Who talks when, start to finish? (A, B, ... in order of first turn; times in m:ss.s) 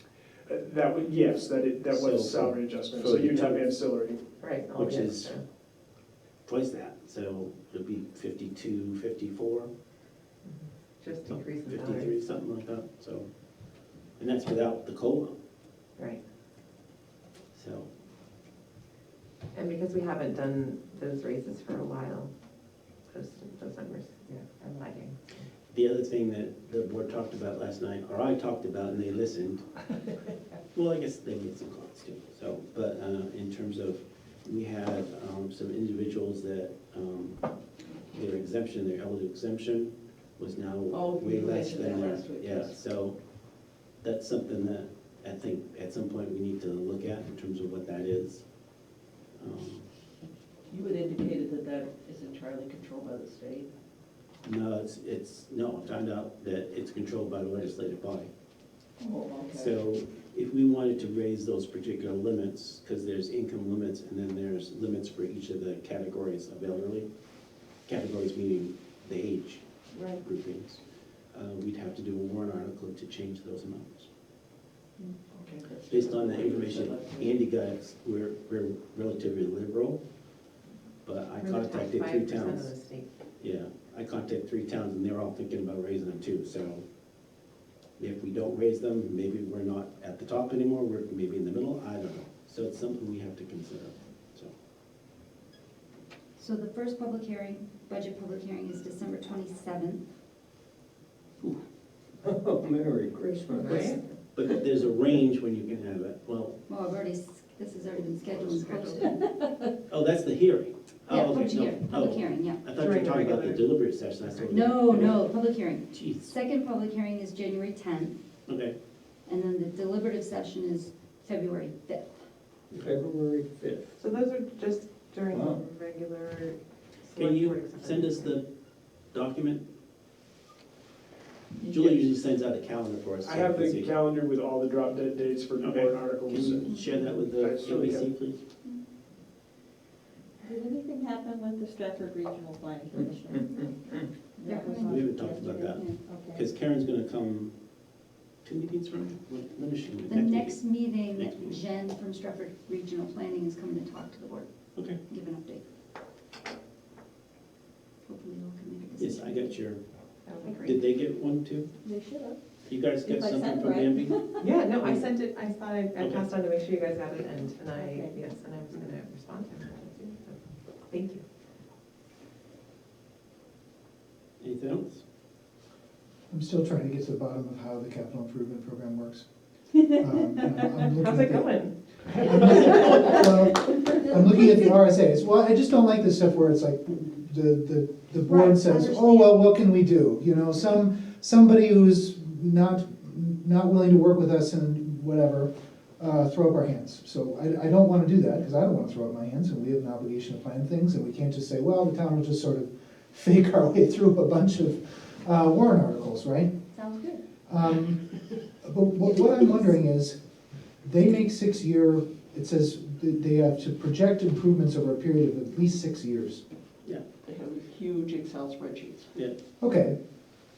0:00.5-0:04.2 A
0:01.9-0:03.6 B
0:04.4-0:05.4 C
0:04.8-0:05.3 B
0:06.5-0:09.7 B
0:10.4-0:12.2 C
0:11.3-0:13.3 B
0:14.2-0:15.4 B
0:17.5-0:17.9 B
0:19.5-0:22.3 C
0:23.1-0:25.4 C
0:25.7-0:29.6 B
0:30.7-0:37.4 B
0:38.1-0:43.2 B
0:40.9-0:42.8 D
0:44.0-0:48.4 B
0:49.4-0:49.9 B
0:50.7-0:53.7 D
0:54.4-0:58.3 B
0:59.0-0:59.7 D
0:59.5-1:07.1 B
1:07.9-1:10.8 B
1:11.3-1:14.1 B
1:15.6-1:17.3 D
1:15.9-1:20.0 B
1:21.0-1:22.7 B
1:21.4-1:23.1 C
1:23.4-1:26.8 B
1:28.0-1:34.5 B
1:36.4-1:40.0 E
1:42.2-1:44.0 F
1:43.6-1:44.0 C
1:44.4-1:46.6 B
1:46.7-1:49.2 E
1:48.3-1:49.0 C
1:49.9-1:55.2 B
1:51.1-1:52.6 E
1:52.8-1:53.6 C
1:54.4-1:58.2 E
1:55.9-1:56.3 B
1:58.5-1:58.8 B
1:59.3-2:02.2 E
2:02.7-2:03.9 F
2:04.0-2:08.4 C
2:05.3-2:05.6 F
2:07.2-2:08.5 B
2:09.1-2:09.6 B
2:11.6-2:13.9 B
2:13.2-2:16.7 A
2:15.6-2:18.4 B
2:17.3-2:18.1 A
2:20.4-2:23.7 G
2:24.4-2:25.1 G
2:24.4-2:26.0 E
2:24.8-2:27.6 B
2:26.1-2:26.4 G
2:28.4-2:31.6 B
2:30.1-2:34.5 E
2:35.1-2:35.6 E
2:38.1-2:39.5 E
2:39.0-2:39.8 B
2:40.2-2:40.8 C
2:40.6-2:41.7 B
2:41.8-2:42.4 G
2:42.7-2:44.2 B
2:43.0-2:44.4 G
2:44.4-2:50.4 C
2:46.0-2:46.2 B
2:47.8-2:48.2 G
2:50.9-2:51.2 C
2:54.4-2:55.0 B
2:56.3-2:59.2 H
2:59.8-3:01.5 H
3:00.8-3:03.1 C
3:02.1-3:26.5 H
3:08.3-3:09.4 E
3:26.7-3:27.2 E
3:27.5-3:28.1 H
3:28.6-3:30.2 H
3:30.8-3:36.4 H
3:37.2-3:39.1 D
3:39.6-3:40.0 H